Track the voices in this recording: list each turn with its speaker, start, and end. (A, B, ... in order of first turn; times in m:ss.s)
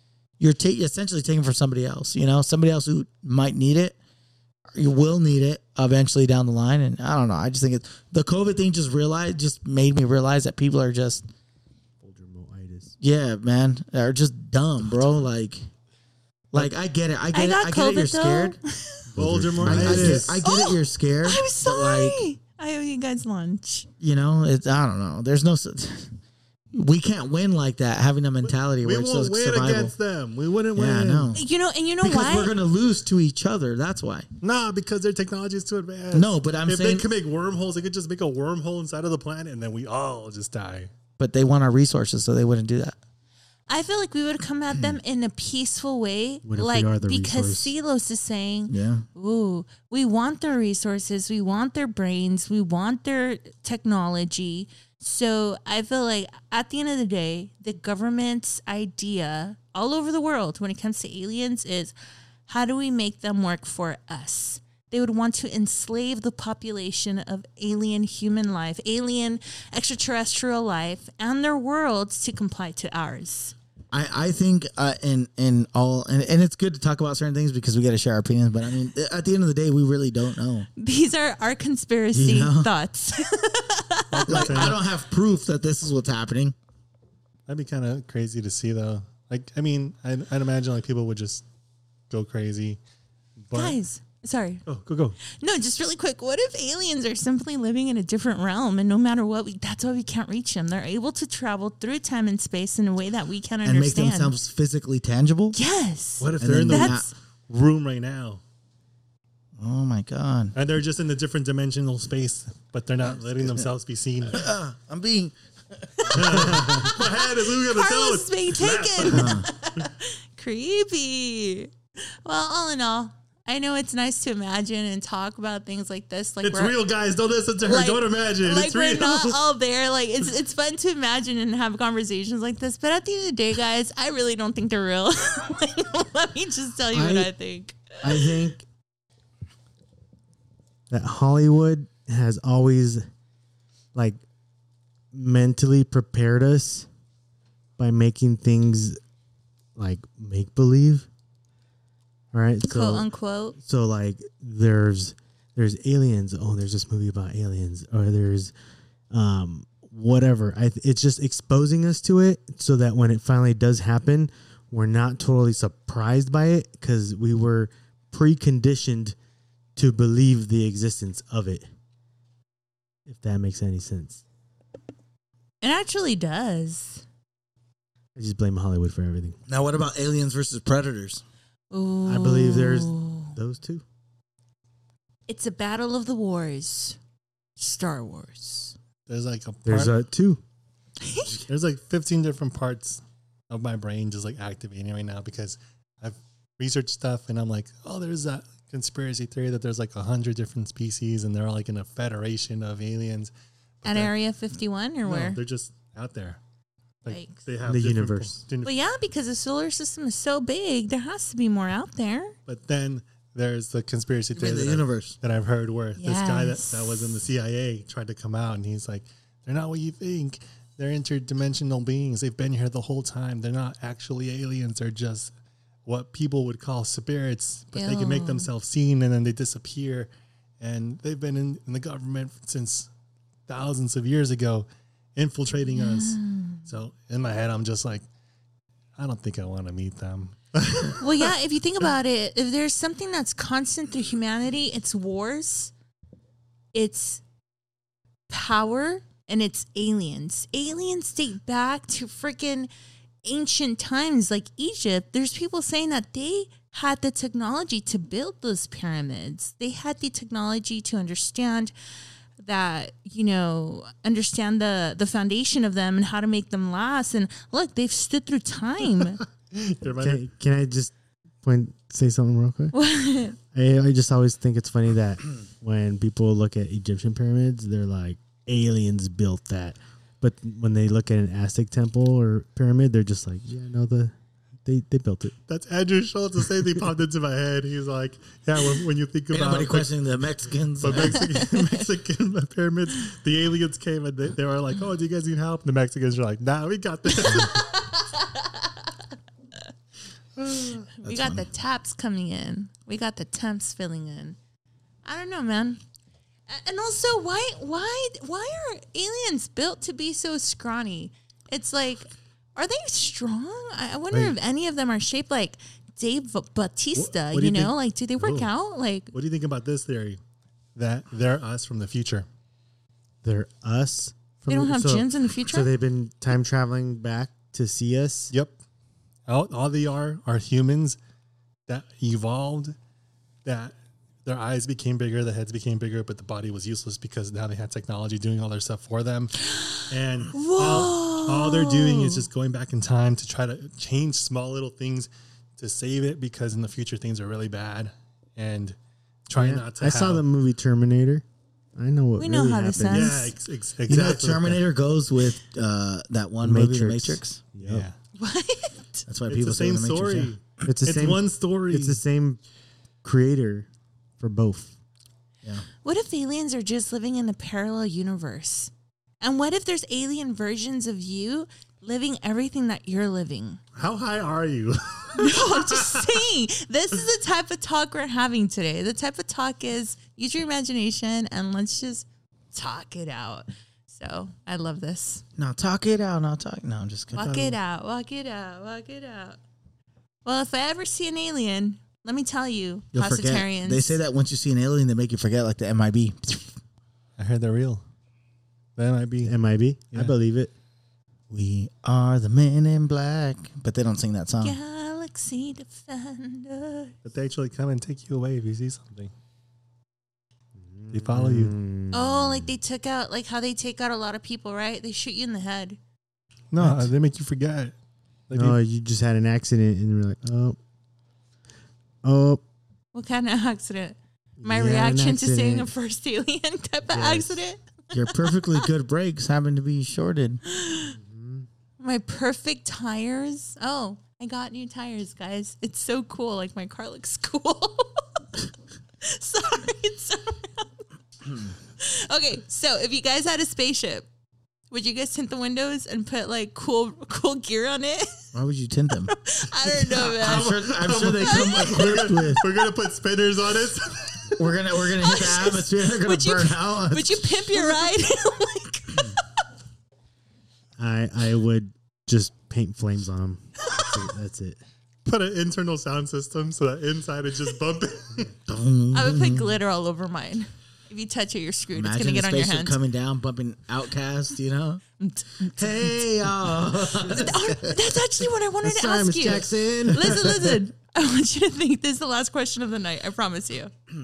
0:00.4-0:04.0 A
0:04.7-0:11.2 A
0:12.0-0:12.9 B
0:13.0-0:15.6 A
0:16.5-0:18.6 A
0:17.3-0:19.0 C
0:19.1-0:20.4 B
0:19.1-0:20.4 D
0:19.6-0:22.2 A
0:20.4-0:23.9 C
0:24.0-0:26.2 A
0:26.7-0:29.9 A
0:28.4-0:31.3 D
0:30.7-0:31.4 A
0:31.3-0:32.5 C
0:32.0-0:34.3 A
0:34.4-0:40.9 D
0:36.1-0:37.1 A
0:41.2-0:43.0 A
0:43.7-1:01.9 C
0:46.4-0:47.7 B
0:48.7-0:49.0 A
1:02.5-1:13.5 C
1:13.9-1:20.7 A
1:20.8-1:24.7 C
1:22.1-1:22.7 A
1:24.1-1:24.8 D
1:24.2-1:26.5 A
1:27.5-1:31.4 D
1:32.1-1:32.8 D
1:33.4-1:33.8 D
1:33.5-1:34.6 C
1:34.6-1:35.2 D
1:35.2-1:44.3 C
1:43.6-1:45.6 A
1:45.5-1:47.1 C
1:46.2-1:48.4 D
1:46.4-1:47.1 A
1:49.6-1:50.5 A
1:50.5-1:54.4 D
1:54.3-1:56.8 A
1:56.0-2:01.7 C
1:56.1-1:59.4 D
1:59.1-1:59.5 A
2:02.2-2:06.8 C
2:06.4-2:09.4 D
2:07.6-2:18.3 C
2:16.9-2:17.3 B
2:18.0-2:18.6 B
2:20.9-2:23.0 B
2:23.9-2:24.2 B
2:25.1-2:26.9 B
2:27.8-2:29.0 B
2:29.8-2:31.1 B
2:32.3-2:38.5 B
2:32.6-2:33.6 C
2:39.1-2:49.2 B
2:49.8-2:51.6 B
2:53.0-2:54.2 B
2:55.6-2:57.0 C
2:58.2-2:59.4 B
2:59.5-3:01.2 A
3:01.7-3:03.3 C
3:02.0-3:03.8 B
3:05.3-3:07.0 C
3:07.6-3:08.7 C
3:09.1-3:10.0 D
3:09.6-3:10.4 B
3:11.0-3:11.3 C
3:11.3-3:23.3 D
3:23.8-3:24.1 D
3:23.8-3:25.4 C
3:25.0-3:26.4 D
3:27.0-3:28.7 D
3:27.1-3:27.4 C
3:27.6-3:28.4 B
3:28.6-3:32.4 C
3:32.4-3:45.3 D
3:34.4-3:35.2 A
3:36.0-3:37.2 C
3:45.8-3:50.1 D
3:47.7-3:48.5 C
3:50.6-3:52.9 D
3:53.5-3:58.0 D
3:55.8-3:56.6 C
3:59.0-4:01.3 D
4:01.0-4:05.7 C
4:06.7-4:07.2 C
4:08.3-4:12.7 C
4:13.2-4:21.7 C
4:22.4-4:29.2 C
4:29.5-4:30.2 D
4:30.0-4:32.7 B
4:32.7-4:33.4 C
4:33.5-4:44.1 B
4:44.6-4:45.3 B
4:45.5-4:49.9 D
4:49.3-4:51.2 A
4:50.8-4:57.6 D
4:51.3-4:51.8 C
4:57.2-4:58.9 C
5:00.4-5:00.8 D
5:00.9-5:04.4 C
5:01.0-5:01.5 A
5:05.0-5:05.8 C
5:06.5-5:19.1 C
5:17.0-5:18.5 D
5:19.1-5:20.2 D
5:20.8-5:22.2 D
5:23.2-5:28.3 B
5:24.5-5:25.7 C
5:29.3-5:31.0 D
5:31.7-5:32.8 D
5:33.4-5:48.8 D
5:39.6-5:42.2 C
5:49.3-5:50.2 D
5:49.3-5:51.2 B
5:51.7-5:53.2 B
5:52.2-5:53.3 C
5:52.9-5:54.6 D
5:53.9-5:57.4 A
5:56.4-5:57.9 B
5:57.6-5:58.0 D
5:58.2-5:59.0 C
5:59.1-6:00.3 A
5:59.3-6:02.0 D
6:00.6-6:02.4 B
6:03.0-6:03.7 B
6:04.2-6:04.7 B
6:05.8-6:13.6 C
6:13.8-6:16.2 D
6:15.2-6:25.2 C
6:25.4-6:27.5 A
6:27.1-6:29.4 C
6:27.2-6:27.5 D
6:30.2-6:34.0 C
6:32.9-6:36.5 A
6:37.2-6:37.8 D
6:38.8-6:39.3 D
6:39.2-6:40.5 B
6:41.3-6:44.6 A
6:44.4-6:46.9 C
6:47.0-6:49.1 D
6:50.6-6:52.5 B
6:50.9-6:51.5 D
6:51.9-6:55.8 C
6:56.5-6:57.7 D
6:56.6-6:56.9 B
6:58.3-6:58.6 D
6:58.3-7:00.6 B
7:02.0-7:02.4 B
7:02.9-7:08.6 C
7:04.4-7:05.7 B
7:06.9-7:07.4 B
7:07.9-7:10.4 A
7:10.5-7:11.0 C
7:11.0-7:11.5 B
7:11.8-7:18.0 C
7:19.0-7:20.8 C
7:21.4-7:24.1 C
7:24.7-7:28.3 C
7:28.3-7:29.1 A
7:29.1-7:30.5 C
7:29.8-7:34.4 D
7:29.9-7:32.4 A
7:31.3-7:31.6 C
7:34.4-7:37.7 A
7:35.0-7:39.4 C
7:40.8-7:44.6 B
7:45.0-7:48.3 D
7:48.5-7:49.5 A
7:48.9-7:52.8 C
7:51.7-7:54.8 A
7:55.0-7:55.9 C
7:55.4-7:57.8 A
7:56.9-8:03.7 C
7:58.6-8:00.6 B